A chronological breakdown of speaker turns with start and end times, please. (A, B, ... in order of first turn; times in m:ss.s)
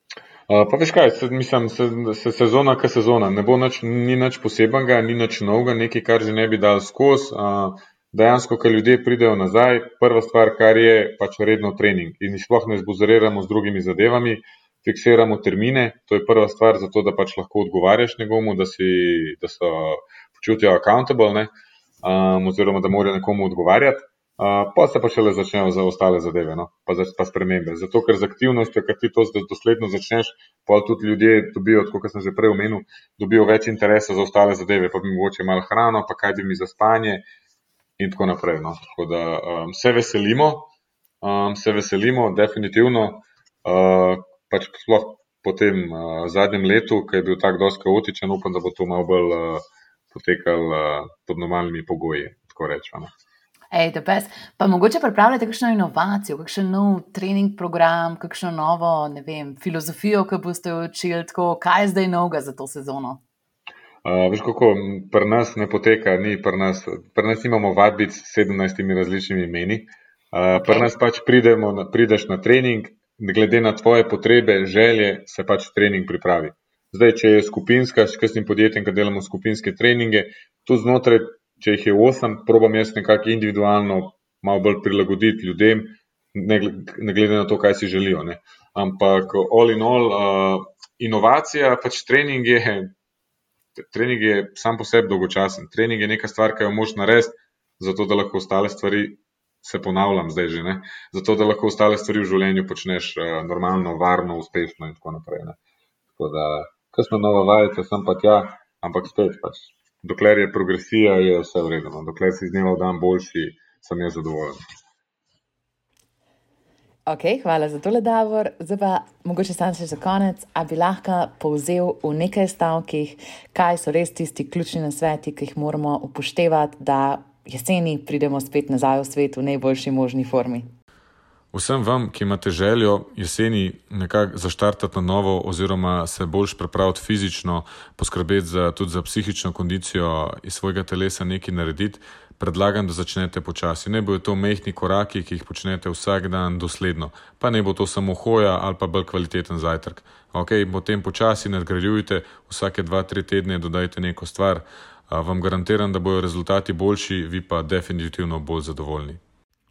0:00.5-0:21.5 A
0:22.0-0:37.2 A
0:38.0-0:53.1 A
0:53.7-1:03.2 B
1:04.0-1:32.9 A
1:10.5-1:10.9 B
1:33.8-1:45.6 A
1:46.2-1:54.6 A
1:57.1-2:10.7 B
2:11.5-2:39.2 A